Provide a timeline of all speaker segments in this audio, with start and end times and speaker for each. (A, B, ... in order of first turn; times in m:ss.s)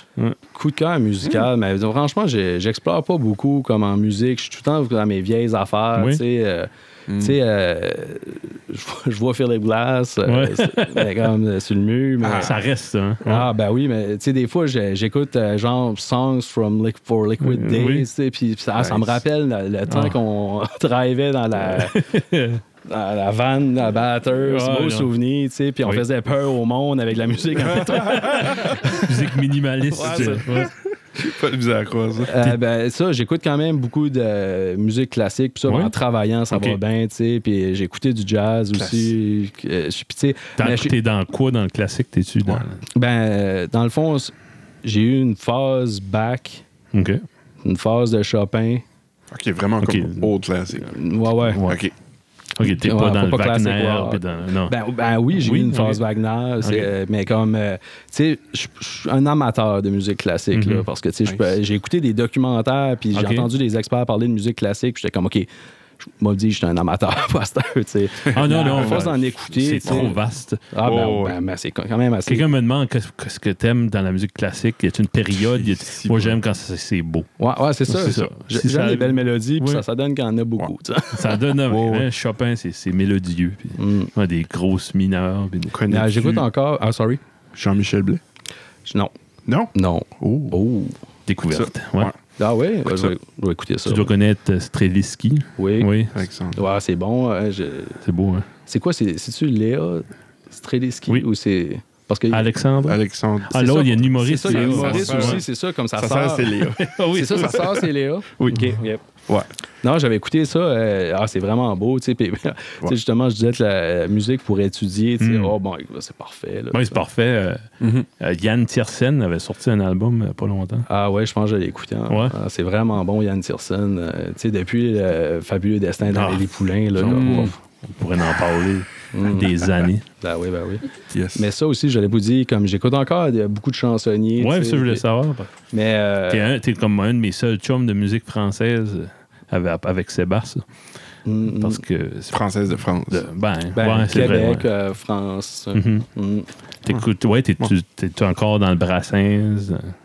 0:00.5-0:12.6 A
0:06.0-0:06.2 B
0:07.1-0:07.4 C
0:10.2-0:11.3 B
0:12.2-0:12.5 C
0:12.4-0:13.5 B
0:13.2-0:22.1 A
0:17.4-0:18.1 B
0:18.8-0:19.2 C
0:19.9-0:20.2 B
0:21.6-0:22.6 B
0:22.8-0:29.1 A
0:24.4-0:25.1 B
0:27.7-0:29.0 C
0:27.7-0:30.7 B
0:29.9-0:30.7 A
0:30.2-0:32.4 C
0:32.2-0:41.0 A
0:35.7-0:35.9 B
0:36.5-0:36.8 B
0:38.7-0:39.1 C
0:40.6-0:42.8 B
0:42.9-0:46.6 A
0:46.9-0:47.2 B
0:47.6-0:48.8 A
0:49.3-0:50.9 C
0:49.8-0:50.3 B
0:50.9-0:51.6 A
0:51.5-0:51.8 B
0:51.6-0:51.9 C
0:52.6-0:54.8 B
0:52.6-1:05.5 A
0:55.3-0:56.0 B
0:56.6-0:56.9 B
1:00.5-1:00.9 B
1:01.2-1:01.5 C
1:03.1-1:03.5 B
1:06.2-1:10.2 A
1:08.3-1:10.6 B
1:08.7-1:09.0 C
1:09.8-1:10.1 C
1:10.7-1:12.4 A
1:10.8-1:11.4 C
1:12.3-1:17.3 B
1:15.5-1:16.4 C
1:17.4-1:21.5 A
1:17.9-1:19.8 B
1:21.1-1:26.4 B
1:21.7-1:22.1 C
1:23.8-1:24.1 A
1:25.7-1:26.4 C
1:25.9-1:27.2 A
1:27.5-1:28.2 C
1:28.9-1:29.1 A
1:29.5-1:30.6 C
1:29.7-1:31.0 A
1:31.3-1:32.1 B
1:31.4-1:32.2 C
1:32.4-1:34.1 A
1:32.8-1:33.1 C
1:33.8-1:36.1 B
1:35.6-1:35.9 A
1:36.1-1:36.6 C
1:36.5-1:38.0 A
1:38.0-1:38.5 B
1:38.7-1:42.5 A
1:42.3-1:45.4 B
1:42.8-1:43.9 C
1:43.6-1:49.0 A
1:44.4-1:47.6 C
1:46.8-1:47.9 B
1:48.4-1:49.5 C
1:49.8-1:57.0 A
1:55.2-1:55.5 B
1:56.7-1:57.7 B
1:57.8-1:58.1 C
1:58.2-2:00.9 B
2:00.9-2:07.6 A
2:02.1-2:02.3 B
2:06.1-2:10.0 B
2:07.1-2:07.5 C
2:09.1-2:09.5 A
2:10.2-2:15.0 A
2:11.1-2:11.5 C
2:14.4-2:15.5 B
2:15.7-2:16.5 A
2:16.3-2:20.7 B
2:21.2-2:21.8 A
2:21.6-2:22.4 B
2:22.3-2:23.3 C
2:23.1-2:24.7 B
2:23.7-2:26.5 A
2:25.7-2:26.1 B
2:26.8-2:29.9 B